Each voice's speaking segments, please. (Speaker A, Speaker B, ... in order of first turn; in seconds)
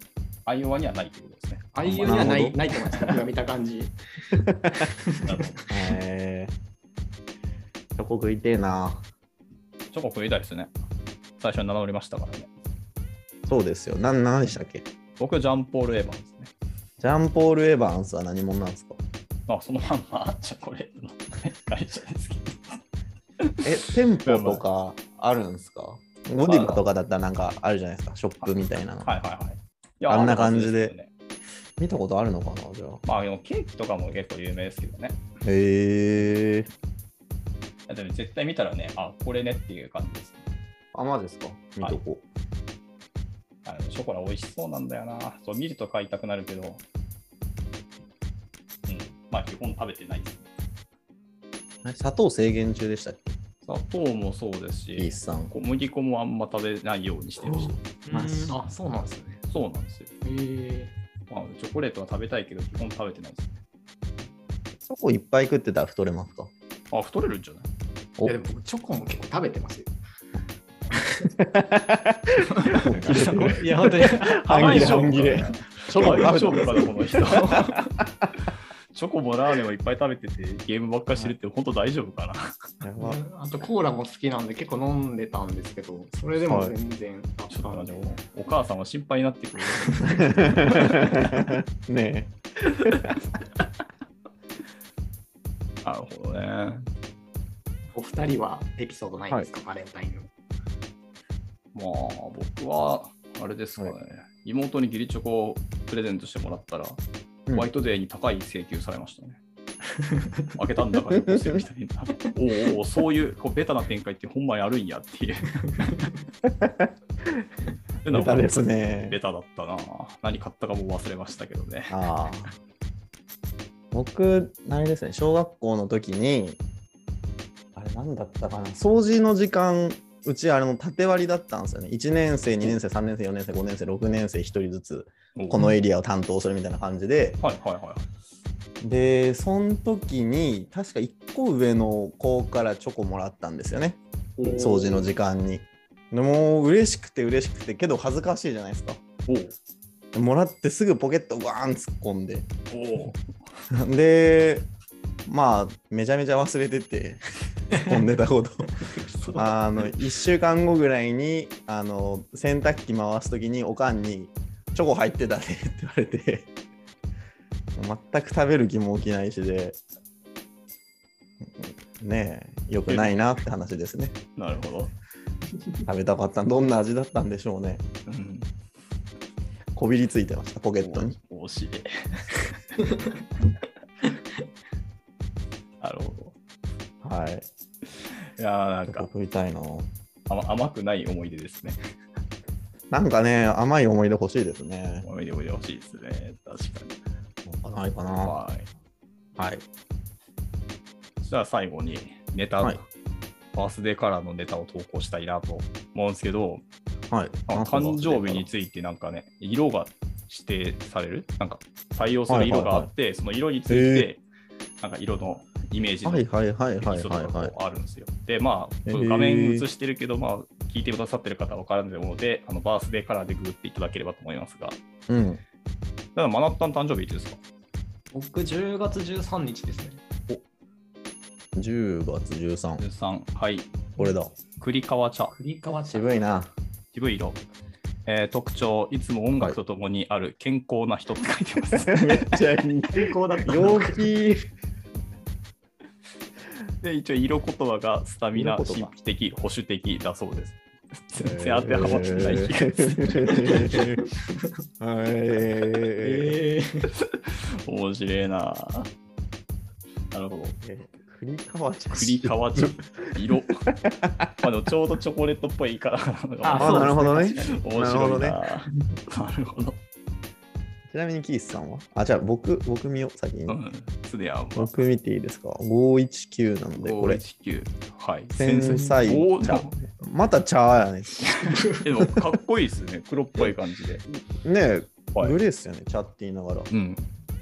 Speaker A: 0.5-2.4, 5.2-5.6, 9.9-10.7, 11.4-12.5, 15.2-16.5, 19.5-22.8, 23.4-23.7, 24.2-24.6, 26.4-26.8, 28.4-31.1, 33.0-35.2, 37.9-40.5, 43.6-46.8, 48.9-50.5, 53.6-57.8, 59.5-60.1, 61.3-63.6, 66.9-67.7, 72.7-73.6, 74.5-77.9, 78.9-82.7, 87.5-91.4, 95.8-96.9, 101.7-109.4, 110.5-116.1, 118.0-122.0, 135.4-135.7, 137.4-138.1, 144.4-144.9, 149.3-149.6, 152.7-153.2, 172.9-173.1, 174.4-174.9, 178.1-178.5, 180.8-182.6, 185.8-186.3, 188.4-189.1, 190.3-191.8, 195.1-197.0, 198.1-198.7, 201.2-202.8, 203.5-206.6, 207.5-214.2, 214.8-216.3, 216.8-224.8, 226.2-227.4, 232.8-233.9, 234.6-235.3, 236.9-237.4, 238.1-242.4, 246.8-253.5, 256.9-258.9, 260.1-260.6, 261.9-263.7, 264.4-269.8, 273.5-274.7, 276.8-279.7, 281.3-284.1, 285.1-285.4, 286.7-287.1
Speaker B: 1.7-5.4, 58.1-59.4, 60.2-60.9, 68.2-69.9, 71.0-71.3, 72.5-75.5, 76.0-76.3, 83.0-88.0, 89.8-90.3, 97.9-100.3, 110.0-110.5, 158.8-159.5, 228.1-230.0, 235.3-236.1, 242.9-244.1, 253.3-254.5, 256.0-256.9, 266.4-267.5, 281.3-281.9
Speaker C: 2.0-2.6, 4.4-4.8, 5.7-6.5, 8.0-9.1, 13.5-14.8, 17.0-19.0, 23.6-29.1, 30.1-30.9, 31.8-33.0, 35.4-36.7, 40.9-42.2, 51.8-53.4, 55.0-55.5, 57.4-58.6, 64.8-66.5, 71.4-78.3, 82.8-83.2, 86.5-86.8, 90.1-93.1, 111.1-111.6, 116.5-117.5, 118.1-119.2, 121.9-122.5, 123.9-126.6, 127.8-137.4, 138.8-144.0, 144.5-149.0, 150.1-152.5, 153.7-154.7, 155.3-158.7, 159.3-166.5, 167.8-169.8, 171.4-174.2, 175.9-177.8, 179.8-181.2, 187.0-187.5, 188.8-189.9, 192.9-195.1, 197.4-198.3, 199.4-199.6, 207.1-208.5, 212.3-212.9, 213.7-214.1, 216.1-217.5, 218.9-219.7, 225.1-225.4, 231.6-232.8, 234.0-234.3, 235.9-236.5, 241.7-244.5, 248.3-248.9, 251.2-254.0, 254.8-256.4, 260.6-264.3, 266.6-268.4, 270.9-273.6, 274.6-277.2, 278.4-281.4, 282.0-282.4, 284.1-286.7